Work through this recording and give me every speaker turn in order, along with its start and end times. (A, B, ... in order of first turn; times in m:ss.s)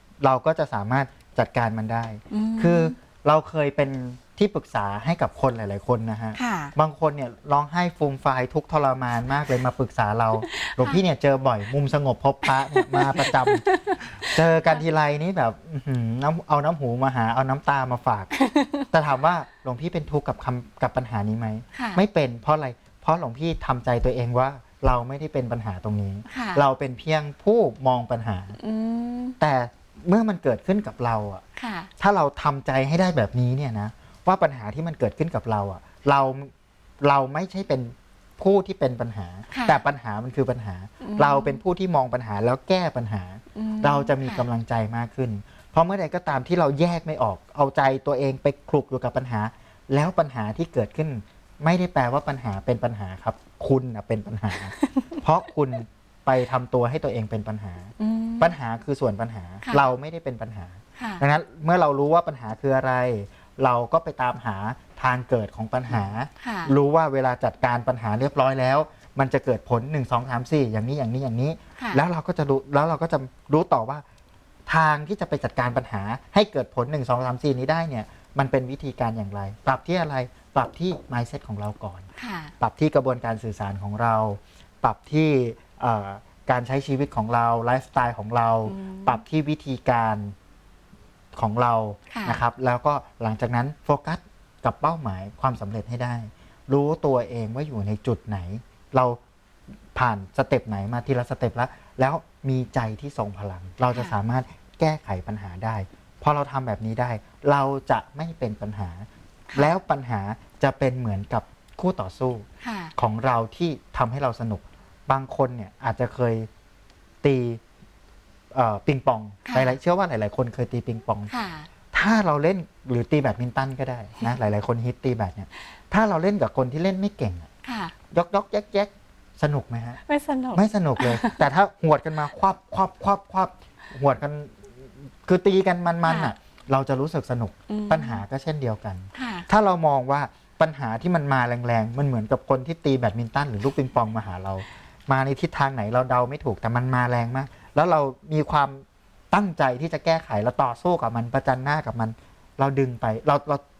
0:00.2-0:13.6 A
0:02.3-0:02.9 B
0:06.3-0:06.7 B
0:10.6-0:11.0 B
0:12.5-0:14.8 B
0:14.2-0:18.3 A
0:18.3-0:18.8 B
0:18.8-0:28.6 A
0:21.7-0:22.0 B
0:26.3-0:26.6 B
0:28.6-0:29.4 B
0:29.4-0:31.4 A
0:31.6-0:31.9 B
0:32.0-1:14.0 A
0:39.5-0:39.8 B
0:41.0-0:41.6 B
0:43.5-0:44.4 B
0:54.8-0:55.1 B
0:58.0-0:58.5 B
1:01.0-1:01.2 B
1:06.4-1:06.7 B
1:11.8-1:12.0 B
1:14.7-1:22.1 A
1:22.2-1:22.5 B
1:22.6-1:30.3 A
1:28.6-1:29.2 B
1:31.4-1:39.2 A
1:32.1-1:32.4 B
1:39.9-1:56.5 A
1:52.6-1:52.9 B
1:57.2-1:57.6 A
1:58.5-2:01.3 A
1:59.4-1:59.8 B
2:01.3-2:01.7 B
2:01.9-2:07.5 A
2:07.6-2:07.9 B
2:08.1-2:10.0 A
2:10.0-2:11.4 B
2:10.5-2:33.6 A
2:16.0-2:16.3 B
2:17.7-2:18.2 B
2:19.1-2:19.5 B